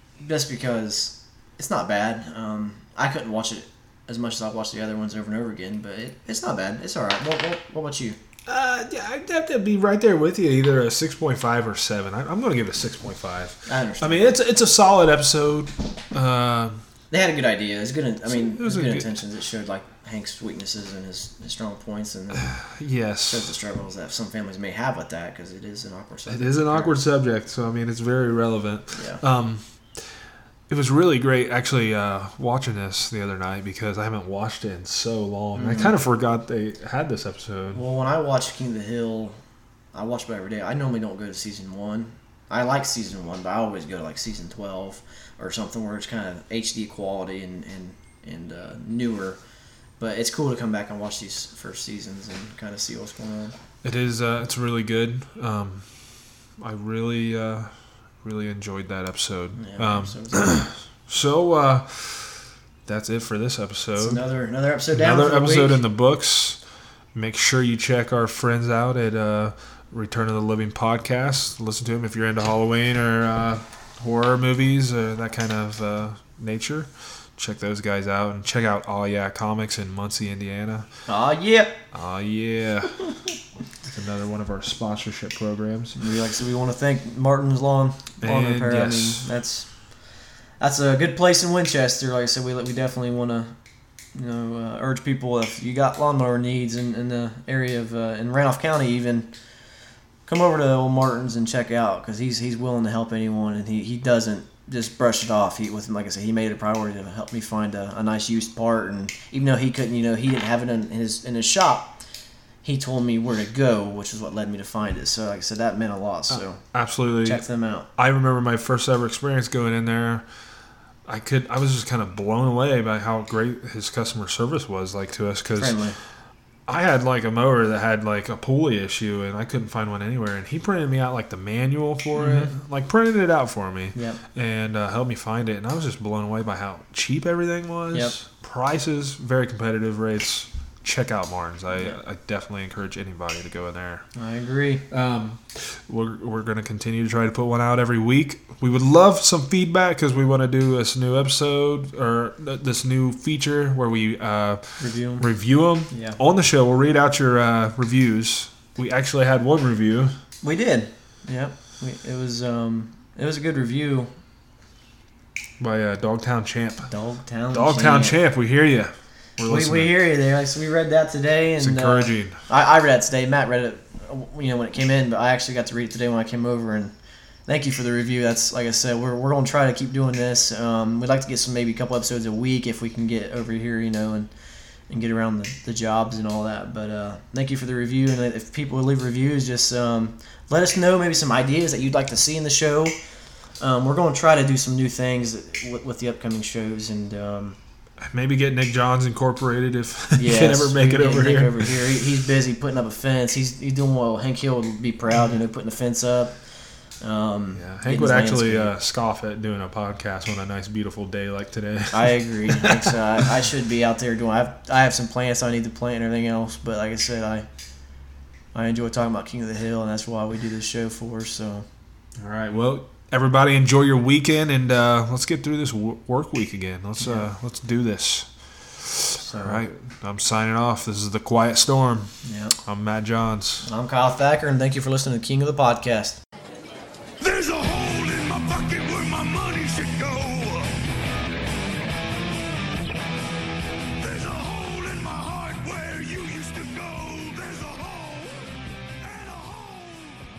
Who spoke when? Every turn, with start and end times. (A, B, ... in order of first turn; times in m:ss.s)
0:00.2-0:08.2 A
0:08.5-0:16.8 B
0:13.7-0:14.4 A
0:17.1-0:22.5 A
0:18.2-0:19.1 B
0:22.4-0:23.5 B
0:23.2-0:27.0 A
0:26.3-0:29.6 B
0:28.9-0:29.2 A
0:30.7-0:37.8 B
0:35.5-0:35.9 A
0:37.7-0:39.4 A
0:39.9-0:49.4 A
0:50.0-0:53.5 A
0:53.8-0:55.9 B
0:56.6-1:04.2 B
0:59.6-1:00.7 A
1:04.0-1:05.8 A
1:04.9-1:06.6 B
1:07.1-1:20.9 B
1:21.1-1:21.8 A
1:21.9-1:23.0 B
1:23.8-1:26.0 B
1:26.0-1:29.7 A
1:28.2-1:29.3 B
1:30.6-1:33.5 A
1:34.1-1:39.3 A
1:40.2-1:52.0 A
1:52.6-1:56.6 A
1:56.3-1:57.4 B
1:57.2-1:57.9 A
1:58.0-2:00.2 B
2:01.0-2:05.8 B
2:05.6-2:06.0 A
2:06.7-2:24.0 B
2:12.1-2:12.5 A
2:13.9-2:14.2 A
2:24.1-2:24.8 A
2:24.9-2:40.1 B
2:34.8-2:35.2 A
2:35.9-2:36.2 A
2:40.4-2:44.1 A
2:45.6-2:46.9 B
2:46.9-2:48.2 A
2:47.5-2:50.0 B
2:49.5-2:56.9 A
2:51.6-2:52.4 B
2:57.5-3:04.3 A
3:04.9-3:13.0 A
3:13.6-3:17.6 A
3:18.0-3:21.8 B
3:20.1-3:26.3 A
3:27.0-3:28.7 A
3:27.5-3:33.0 B
3:31.9-3:37.4 A
3:38.5-3:41.6 A
3:42.2-3:52.1 B
3:47.0-3:47.3 A
3:49.2-3:49.6 A
3:52.2-3:52.6 A
3:52.6-3:53.7 B
3:53.6-3:56.2 A
3:57.2-4:00.7 C
4:04.0-4:08.5 C
4:09.0-4:10.2 C